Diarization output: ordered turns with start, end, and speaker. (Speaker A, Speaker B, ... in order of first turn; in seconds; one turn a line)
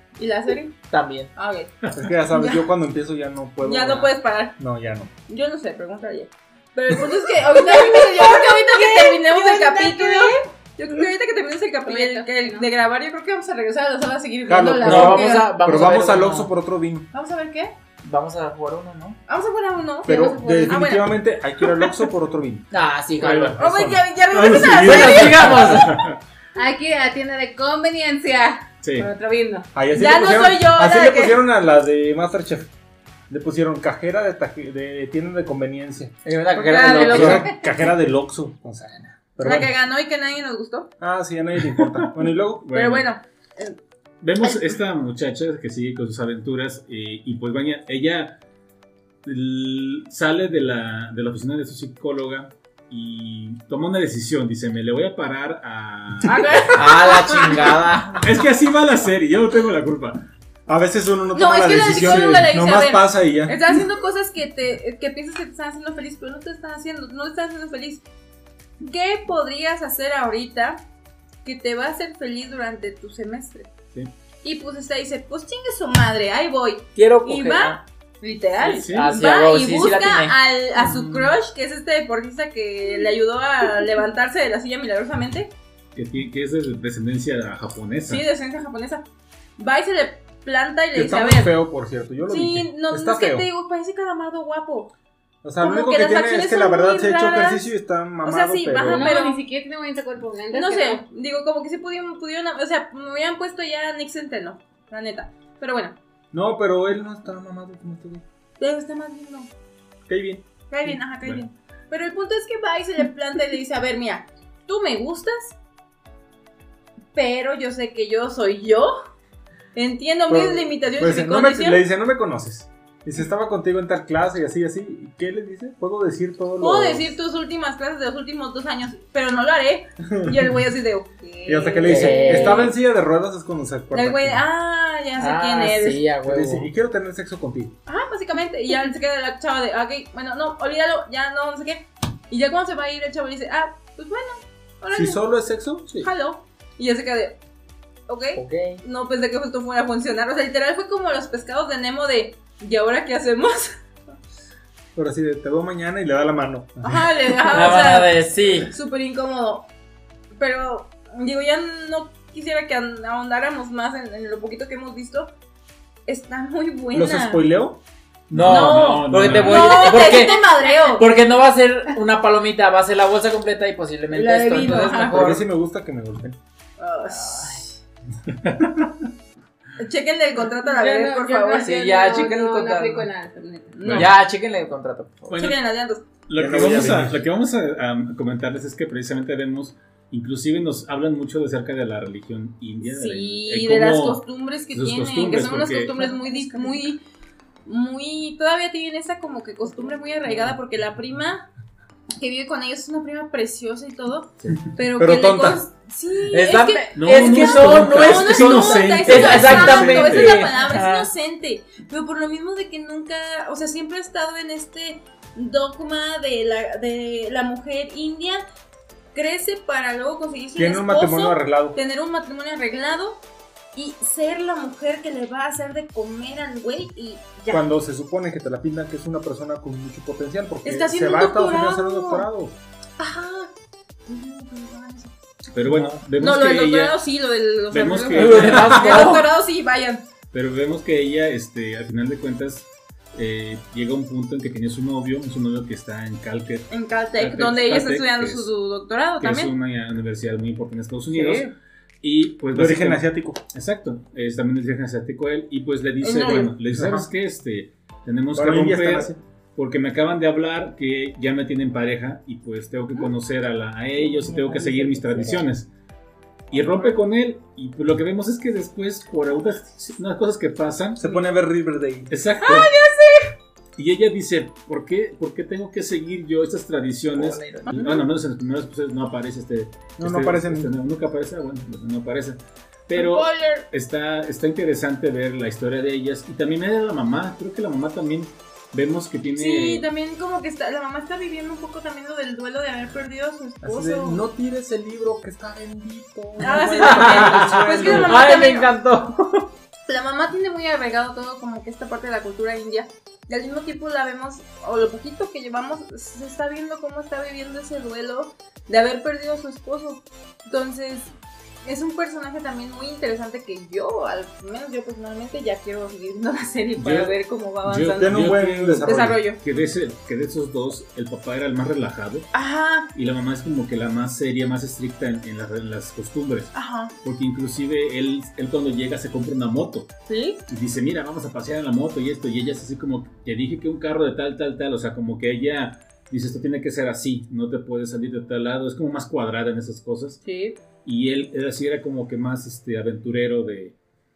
Speaker A: 0.2-0.8
Speaker B: 0.9-1.3
Speaker A: 1.4-1.7
Speaker C: 1.9-5.1
Speaker A: 2.3-2.7
Speaker A: 3.6-4.5
Speaker A: 5.3-15.6
Speaker D: 7.5-10.4
Speaker D: 11.9-12.7
Speaker C: 14.5-17.1
Speaker B: 14.8-16.5
Speaker A: 17.1-17.7
Speaker B: 18.0-19.2
Speaker A: 19.3-21.2
Speaker C: 20.1-22.7
Speaker D: 20.1-20.7
Speaker B: 22.7-23.6
Speaker C: 23.2-25.3
Speaker A: 23.6-25.9
Speaker E: 24.3-26.2
Speaker B: 24.6-26.0
Speaker D: 26.6-29.7
Speaker E: 28.8-29.1
Speaker C: 29.7-32.7
Speaker A: 29.9-31.5
Speaker C: 33.3-39.7
Speaker B: 36.2-37.6
Speaker A: 36.7-37.5
Speaker A: 39.4-40.9
Speaker C: 41.0-42.7
Speaker E: 42.6-43.1
Speaker A: 42.7-43.8
Speaker E: 44.2-48.4
Speaker E: 49.2-56.6
Speaker A: 56.2-57.8
Speaker B: 56.7-58.3
Speaker E: 58.2-60.2
Speaker C: 60.7-63.6
Speaker A: 61.3-68.0
Speaker E: 62.0-62.5
Speaker A: 68.8-70.8
Speaker A: 71.4-73.7
Speaker A: 74.4-85.5
Speaker B: 77.0-77.8
Speaker E: 78.6-79.1
Speaker B: 78.8-80.4
Speaker E: 86.0-88.2
Speaker A: 88.1-89.0
Speaker A: 89.6-91.6
Speaker C: 90.9-93.5
Speaker A: 92.3-94.9
Speaker C: 95.4-99.2
Speaker A: 95.6-97.7
Speaker A: 98.2-99.4
Speaker D: 98.9-101.0
Speaker A: 100.5-106.0
Speaker C: 106.3-108.2
Speaker A: 108.6-109.5
Speaker C: 110.1-110.5
Speaker A: 110.7-115.6
Speaker A: 117.1-118.9
Speaker A: 119.7-121.8
Speaker C: 120.3-127.1
Speaker A: 126.6-132.7
Speaker C: 130.1-130.5
Speaker C: 131.5-134.4
Speaker B: 131.8-132.7
Speaker A: 133.9-136.0
Speaker B: 135.2-136.7
Speaker C: 136.2-137.7
Speaker A: 137.9-145.2
Speaker C: 144.9-146.1
Speaker A: 146.0-147.4
Speaker A: 148.1-153.8
Speaker B: 148.4-148.8
Speaker C: 154.9-157.1
Speaker A: 156.8-159.7
Speaker B: 157.5-158.7
Speaker A: 160.3-165.3
Speaker A: 166.1-167.5
Speaker C: 166.9-167.8
Speaker E: 168.3-170.0
Speaker B: 168.3-175.4
Speaker A: 168.4-171.1
Speaker A: 174.1-175.3
Speaker C: 174.9-176.4
Speaker A: 176.8-177.7
Speaker B: 177.1-177.7
Speaker E: 178.3-179.1
Speaker A: 179.8-181.8
Speaker D: 180.5-183.8
Speaker B: 181.6-183.1
Speaker A: 183.7-184.2
Speaker E: 183.8-184.1
Speaker B: 183.9-185.4
Speaker E: 185.3-185.6
Speaker A: 185.3-186.1
Speaker E: 186.3-196.0
Speaker C: 186.4-187.2
Speaker A: 192.8-197.0
Speaker D: 196.0-196.8
Speaker A: 197.7-201.5
Speaker A: 202.2-218.4
Speaker C: 205.0-205.6
Speaker B: 206.3-211.1
Speaker E: 206.9-210.5
Speaker A: 219.1-223.2
Speaker C: 220.6-221.8
Speaker A: 223.7-227.7
Speaker C: 227.5-232.6
Speaker A: 230.6-232.3
Speaker A: 233.0-233.5
Speaker A: 234.1-235.1
Speaker E: 235.5-237.0
Speaker B: 235.7-236.0
Speaker A: 236.2-240.1
Speaker E: 237.7-239.2
Speaker B: 238.1-239.3
Speaker E: 240.3-248.5
Speaker A: 246.7-249.6
Speaker E: 249.2-251.5
Speaker E: 252.0-265.7
Speaker C: 252.5-253.4
Speaker A: 256.0-256.5
Speaker C: 256.7-257.1
Speaker C: 258.4-259.2
Speaker C: 264.0-265.4
Speaker E: 266.5-271.0
Speaker C: 271.0-272.1
Speaker E: 272.1-272.7
Speaker A: 272.4-273.3
Speaker E: 273.8-289.9
Speaker B: 277.1-277.9
Speaker A: 277.6-278.0
Speaker C: 280.0-280.7
Speaker A: 282.9-283.7
Speaker A: 289.4-294.3
Speaker C: 293.6-298.5
Speaker A: 296.4-298.7
Speaker B: 296.6-299.5
Speaker A: 299.9-319.4
Speaker E: 316.8-322.3
Speaker C: 318.0-319.1
Speaker A: 322.3-322.9
Speaker E: 322.9-329.9
Speaker A: 326.5-326.9
Speaker A: 330.1-330.4
Speaker E: 330.5-340.2
Speaker A: 340.2-340.6
Speaker E: 340.8-343.8